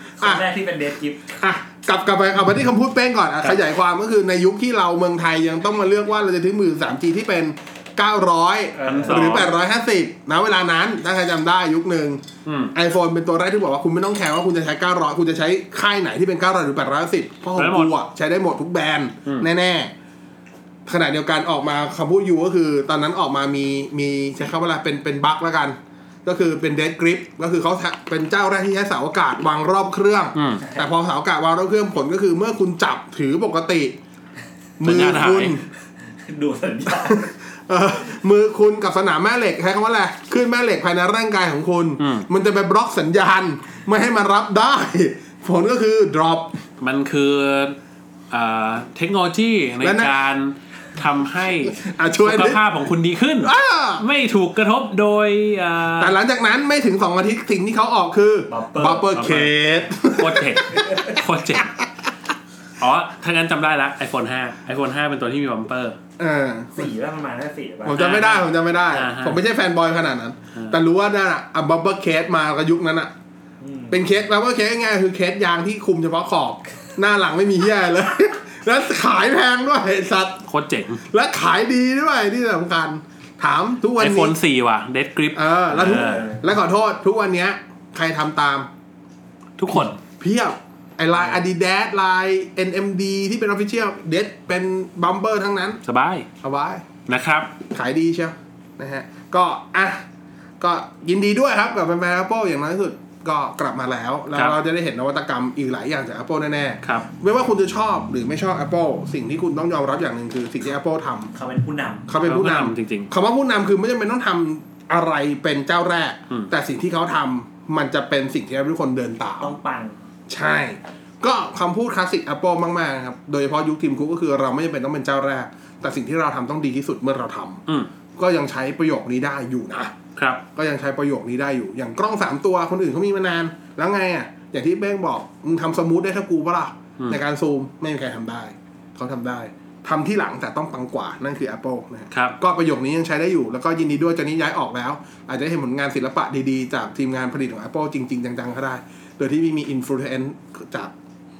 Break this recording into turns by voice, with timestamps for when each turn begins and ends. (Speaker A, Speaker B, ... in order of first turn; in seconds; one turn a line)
Speaker A: 0.2-1.3
Speaker B: 1.4-12.2
Speaker A: 8.8-9.5
Speaker C: 8.8-9.5
Speaker C: 12.4-12.7
Speaker B: 12.7-19.9
Speaker C: 17.6-17.9
Speaker B: 20.9-34.0
Speaker C: 30.4-30.7
Speaker B: 34.8-35.6
Speaker C: 34.8-35.6
Speaker A: 36.2-37.3
Speaker B: 36.9-46.6
Speaker C: 42.0-42.3
Speaker C: 46.8-47.8
Speaker C: 48.3-56.1
Speaker B: 49.8-50.1
Speaker B: 51.7-52.6
Speaker B: 53.4-54.0
Speaker B: 56.0-61.1
Speaker A: 58.5-59.2
Speaker C: 59.1-61.8
Speaker A: 60.7-61.2
Speaker C: 62.8-66.0
Speaker B: 66.2-66.9
Speaker A: 66.8-68.4
Speaker B: 67.8-73.1
Speaker C: 67.9-69.4
Speaker A: 73.6-74.0
Speaker B: 73.9-80.4
Speaker C: 80.5-81.0
Speaker B: 81.0-84.3
Speaker C: 84.0-86.3
Speaker B: 85.3-88.7
Speaker A: 85.8-86.4
Speaker C: 89.6-90.0
Speaker B: 89.8-95.8
Speaker C: 95.8-96.3
Speaker B: 96.4-96.9
Speaker C: 97.1-97.5
Speaker B: 97.7-100.0
Speaker B: 100.6-111.3
Speaker C: 106.8-107.1
Speaker A: 111.3-112.1
Speaker B: 112.1-119.5
Speaker C: 112.2-113.1
Speaker A: 119.4-120.0
Speaker B: 120.3-127.6
Speaker B: 128.2-129.9
Speaker C: 130.2-130.4
Speaker B: 130.5-150.9
Speaker C: 142.1-142.4